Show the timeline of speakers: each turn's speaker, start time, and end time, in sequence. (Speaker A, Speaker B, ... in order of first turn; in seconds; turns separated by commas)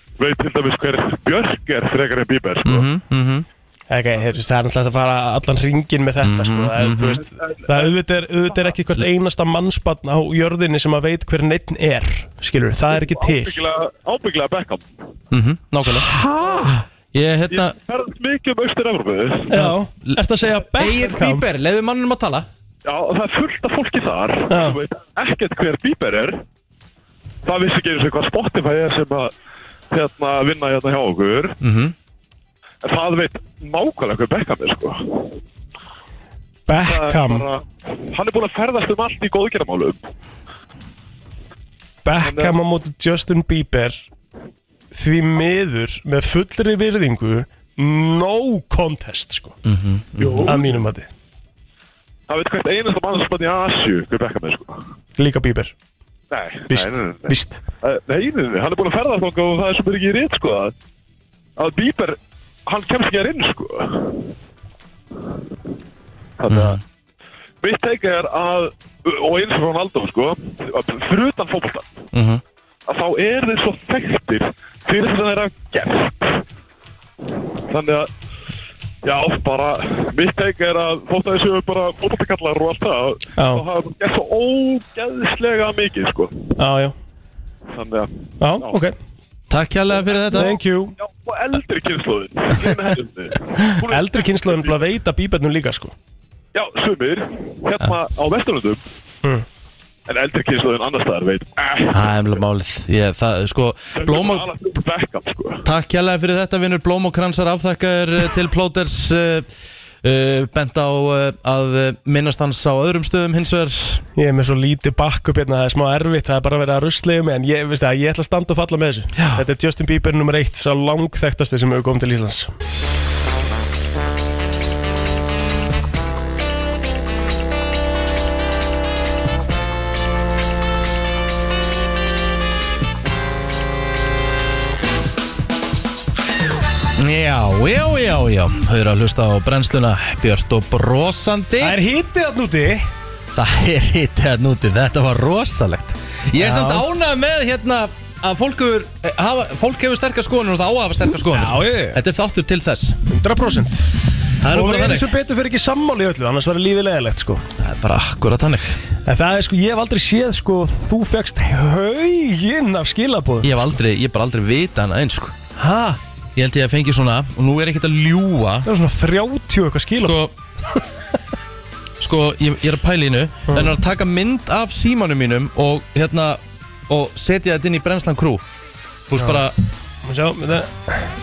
Speaker A: 0.2-2.9, Speaker B: 2.6-3.5, Speaker C: 3.9-13.6, Speaker B: 6.2-7.2, Speaker A: 7.5-7.9, Speaker A: 12.9-14.9, Speaker B: 15.3-17.8, Speaker C: 16.1-16.7, Speaker A: 17.5-19.5, Speaker C: 19.5-21.5, Speaker B: 19.5-22.5, Speaker A: 22.9-26.4, Speaker C: 24.5-24.8, Speaker A: 27.4-29.3, Speaker A: 29.9-31.6, Speaker B: 31.6-31.9, Speaker A: 32.8-35.3, Speaker C: 36.7-37.5, Speaker A: 36.8-40.0, Speaker C: 42.0-44.1, Speaker A: 42.2-42.6, Speaker C: 44.9-49.6, Speaker B: 49.6-50.6, Speaker A: 50.2-50.7, Speaker C: 50.4-51.1, Speaker A: 52.3-54.8, Speaker C: 55.2-55.7, Speaker A: 56.3-60.7, Speaker C: 56.7-57.6, Speaker A: 61.6-64.2, Speaker A: 66.4-66.8, Speaker B: 66.5-66.8, Speaker A: 67.6-72.0, Speaker B: 72.1-72.4, Speaker A: 72.9-76.4, Speaker A: 77.7-78.1, Speaker A: 79.0-86.3, Speaker C: 83.4-83.6, Speaker C: 86.6-87.0, Speaker A: 87.7-88.8, Speaker C: 88.4-89.0, Speaker B: 89.5-90.5, Speaker A: 90.0-94.9, Speaker C: 90.3-91.0, Speaker C: 93.9-95.9, Speaker A: 96.5-98.8, Speaker A: 100.1-102.4, Speaker B: 101.9-104.5, Speaker A: 104.0-105.7, Speaker B: 105.7-109.5, Speaker B: 110.0-114.0, Speaker C: 114.2-122.5, Speaker B: 119.2-119.4, Speaker B: 137.0-141.8, Speaker C: 141.6-142.9, Speaker B: 143.3-153.0, Speaker C: 146.4-146.8, Speaker C: 151.3-152.0, Speaker C: 153.1-157.4, Speaker B: 154.4-155.1, Speaker B: 157.6-158.8, Speaker C: 159.1-163.6, Speaker B: 163.4-165.3, Speaker C: 165.6-166.0, Speaker B: 166.4-168.7, Speaker C: 168.7-170.2, Speaker B: 170.0-170.3, Speaker B: 172.0-178.4, Speaker C: 173.5-173.7, Speaker B: 179.1-179.6, Speaker C: 179.2-179.4, Speaker C: 180.1-181.1